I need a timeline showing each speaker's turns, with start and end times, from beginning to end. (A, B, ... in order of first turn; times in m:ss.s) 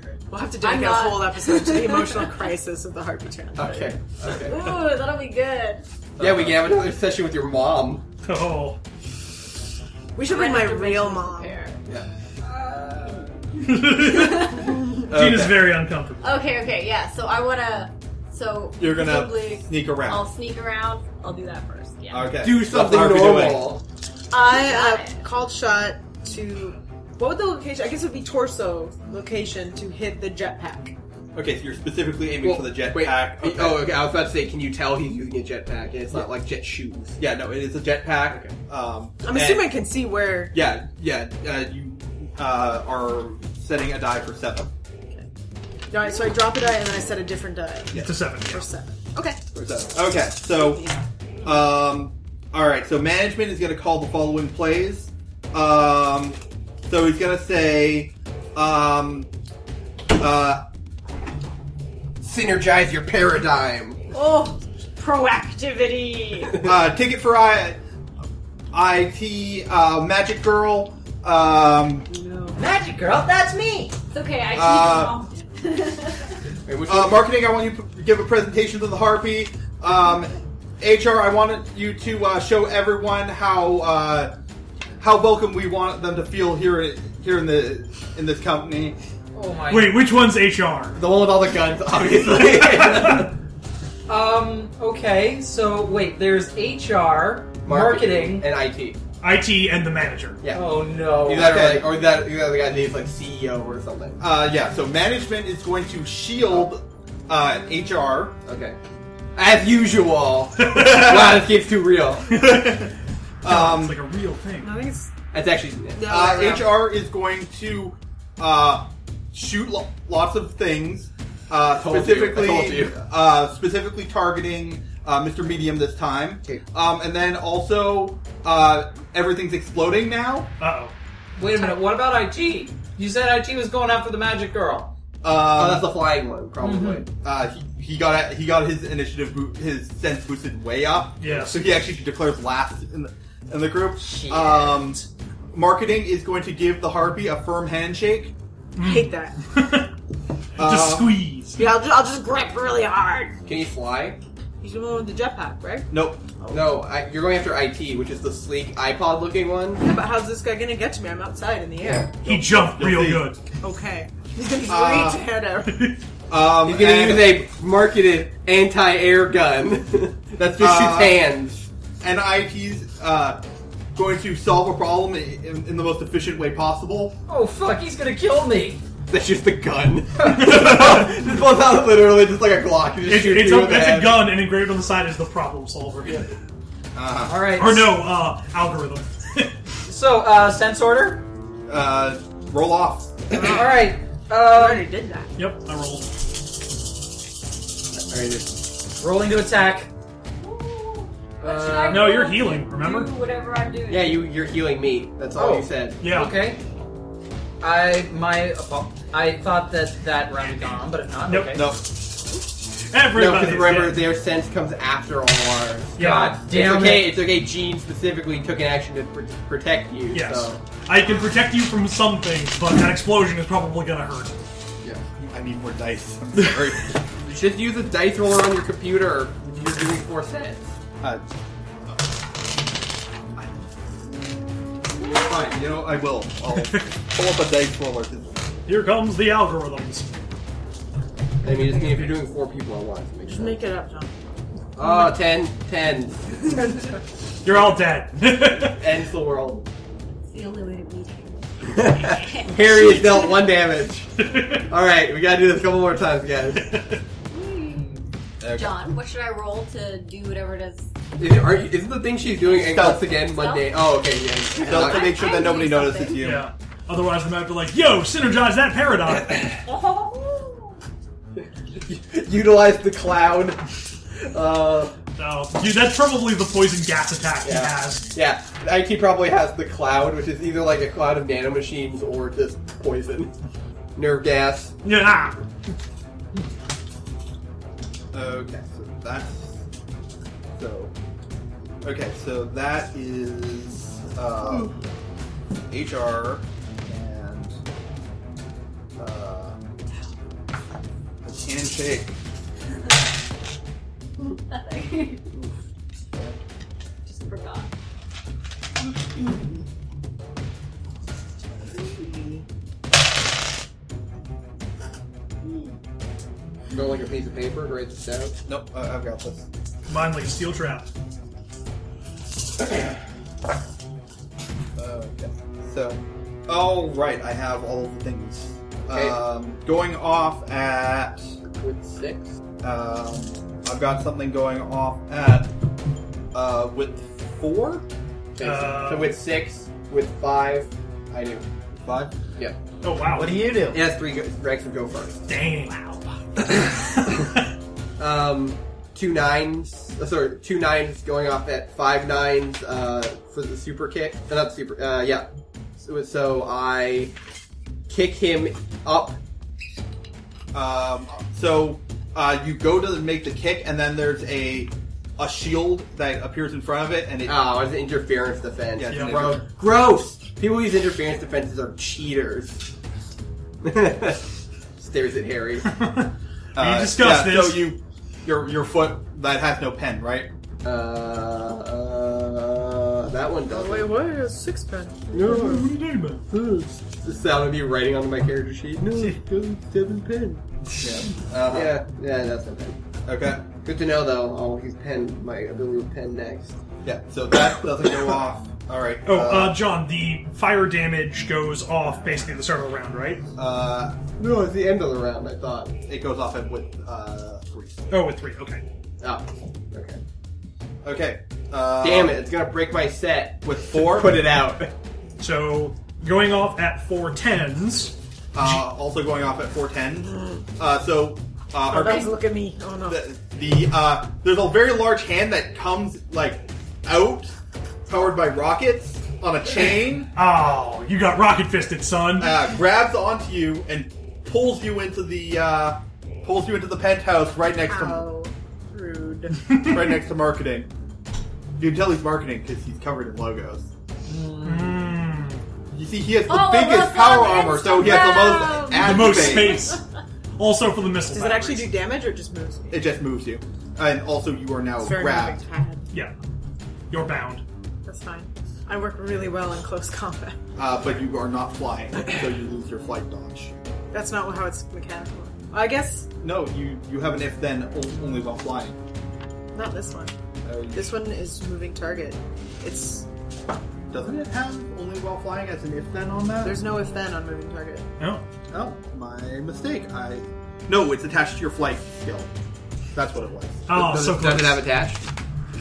0:00.3-0:04.0 A
0:00.6-0:02.3 B
0:03.5-0:04.6 C
0:04.3-0:05.8 B
0:06.2-0:08.0 C
0:08.2-0:08.8 D
0:10.1-0:11.6 A
0:10.2-0:11.8 B
0:12.4-0:15.0 B
0:13.6-0:16.3 D
0:15.1-0:15.8 E
0:16.2-0:22.4 B
0:18.8-0:20.2 E
0:22.1-0:23.8 E
0:22.4-0:23.8 C
0:24.3-0:30.9 A
0:24.3-0:25.2 B
0:31.3-0:33.9 E
0:32.4-0:37.2 C
0:37.2-0:39.7 E
0:39.2-0:40.6 A
0:40.5-0:44.7 E
0:45.9-0:49.4 A
0:47.9-0:48.2 E
0:48.0-0:48.7 D
0:49.5-0:50.9 E
0:50.6-0:50.9 A
0:51.4-0:59.3 E
1:00.1-1:00.6 E
1:02.2-1:04.0 C
1:04.1-1:06.6 A
1:06.6-1:07.8 E
1:08.7-1:12.1 E
1:12.1-1:12.6 A
1:12.5-1:14.0 F
1:14.1-1:16.3 B
1:14.5-1:15.2 E
1:16.6-1:17.2 C
1:16.8-1:24.3 E
1:25.0-1:29.0 E
1:29.3-1:30.0 F
1:29.7-1:31.0 D
1:30.9-1:33.3 C
1:32.5-1:33.3 D
1:34.1-1:38.5 F
1:37.6-1:39.0 C
1:39.2-1:40.4 D
1:40.4-1:44.2 C
1:40.5-1:41.6 F
1:41.3-1:41.9 E
1:44.2-1:48.4 E
1:48.4-1:48.8 C
1:49.3-1:52.4 C
1:50.6-1:51.0 D
1:50.7-1:51.4 E
1:52.3-1:54.0 E
1:52.4-1:52.8 D
1:53.4-1:54.7 D
1:54.6-1:55.1 A
1:55.3-1:56.2 C
1:55.9-1:56.8 A
1:56.0-2:10.5 E
2:01.8-2:03.0 C
2:10.6-2:10.9 D
2:11.4-2:14.9 F
2:15.2-2:16.0 E
2:15.4-2:17.1 C
2:16.6-2:17.0 F
2:17.2-2:28.3 E
2:21.2-2:21.7 D
2:24.0-2:25.1 F
2:28.8-2:29.9 D
2:28.8-2:29.4 A
2:30.6-2:31.3 E
2:30.6-2:31.7 D
2:31.6-2:33.4 A
2:33.4-2:34.2 C
2:34.6-2:36.8 A
2:35.9-2:36.2 E
2:36.5-2:39.8 C
2:39.8-2:42.1 A
2:41.8-2:42.1 C
2:42.2-2:43.3 E
2:42.2-2:43.4 D
2:43.6-2:45.9 A
2:44.6-2:45.2 E
2:45.6-2:46.0 D
2:46.3-2:47.4 E
2:46.6-2:51.7 C
2:50.6-2:51.2 E
2:52.0-2:53.4 E
2:53.9-2:57.2 E
2:57.3-2:58.8 F
2:59.1-3:04.3 C
3:00.6-3:00.9 D
3:03.0-3:06.3 D
3:06.9-3:07.5 E
3:07.2-3:08.0 F
3:07.6-3:09.5 D
3:09.8-3:11.2 F
3:11.7-3:13.1 E
3:13.3-3:13.8 A
3:13.4-3:14.9 F
3:14.5-3:15.3 A
3:15.4-3:16.1 D
3:17.9-3:18.6 C
3:19.0-3:19.9 F
3:20.4-3:24.2 B
3:21.4-3:22.0 F
3:21.5-3:21.8 C
3:21.8-3:23.1 D
3:23.9-3:26.0 C
3:25.3-3:26.6 F
3:26.0-3:26.4 D
3:27.6-3:31.7 F
3:31.3-3:31.7 D
3:31.5-3:31.9 E
3:32.9-3:34.0 D
3:33.1-3:40.6 C
3:36.0-3:36.4 D
3:36.0-3:37.2 F
3:40.1-3:44.4 D
3:45.2-3:47.0 E
3:47.2-3:50.7 C
3:51.8-3:52.2 E
3:53.3-3:53.7 E
3:55.0-3:55.5 B
3:55.0-3:58.4 E
3:56.6-3:56.8 D
3:58.6-4:00.1 D
4:01.4-4:03.6 C
4:03.3-4:04.2 A
4:04.7-4:06.6 C
4:07.4-4:08.8 D
4:08.6-4:09.7 C
4:10.3-4:13.2 B
4:11.6-4:16.8 C
4:14.2-4:14.7 D
4:16.6-4:17.0 D
4:17.3-4:20.9 B
4:18.4-4:18.9 E
4:21.2-4:25.3 C
4:22.6-4:23.1 E
4:23.1-4:26.3 B
4:24.6-4:26.5 E
4:26.2-4:29.6 D
4:29.6-4:30.7 B
4:31.8-4:33.6 C
4:34.2-4:35.0 C
4:35.2-4:38.1 D
4:37.4-4:43.3 C
4:44.0-4:44.7 C
4:44.8-4:45.4 D
4:48.1-4:49.6 E
4:50.6-4:50.9 E
4:51.8-4:54.7 E
4:55.7-4:57.6 E
4:59.0-4:59.6 E
5:01.2-5:02.2 E
5:04.5-5:05.3 B
5:07.0-5:07.7 B
5:16.7-5:18.3 C
5:18.5-5:19.5 E
5:19.9-5:20.9 D
5:24.8-5:31.2 E
5:28.9-5:29.2 C
5:31.6-5:32.3 C
5:32.6-5:35.5 E
5:36.3-5:37.8 E
5:38.4-5:41.5 C
5:38.4-5:39.2 D
5:41.8-5:42.2 E
5:42.8-5:43.4 D
5:43.1-5:43.8 F
5:43.7-5:45.3 C
5:45.3-5:45.8 D
5:46.4-5:47.4 D
5:48.0-5:57.1 C
5:57.9-5:59.2 C
6:00.5-6:07.4 E
6:07.2-6:12.7 C
6:08.7-6:09.4 E
6:08.9-6:09.2 D
6:13.6-6:15.7 C
6:15.6-6:17.7 D
6:16.6-6:20.3 E
6:20.6-6:23.9 C
6:23.5-6:25.4 A
6:25.1-6:25.7 C
6:25.2-6:26.2 D
6:26.3-6:30.8 C
6:30.8-6:31.8 E
6:31.5-6:32.8 C
6:33.0-6:33.4 E
6:33.6-6:36.6 C
6:36.8-6:39.6 E
6:39.0-6:43.2 D
6:43.4-6:44.0 E
6:44.2-6:45.8 C
6:45.8-6:47.9 E
6:47.9-6:48.6 D
6:49.0-6:50.0 C
6:50.8-6:52.2 E
6:51.8-6:54.7 C
6:53.4-6:54.1 E
6:55.2-6:58.6 D
6:58.3-7:02.2 E
7:01.7-7:03.0 A
7:02.9-7:07.3 E
7:07.9-7:10.1 E
7:10.1-7:12.4 D
7:12.2-7:18.0 E
7:17.6-7:19.6 A
7:19.6-7:20.7 E
7:21.6-7:23.7 E
7:24.0-7:24.9 F
7:24.4-7:25.4 D
7:25.7-7:29.7 E
7:26.2-7:29.8 B
7:28.7-7:29.8 D
7:30.4-7:31.7 D
7:31.1-7:32.8 A
7:32.7-7:35.4 E
7:34.8-7:35.8 A
7:36.9-7:37.4 D
7:37.8-7:40.4 A
7:40.6-7:43.6 E
7:43.9-7:46.1 A
7:46.2-7:48.8 E
7:49.5-7:50.1 A
7:50.4-7:51.0 E
7:50.7-7:53.0 A
7:53.9-7:56.6 E
7:56.4-7:57.9 A
7:58.0-7:58.2 D
7:58.5-8:02.3 E
8:02.9-8:03.7 E
8:03.7-8:04.6 D
8:03.7-8:05.0 C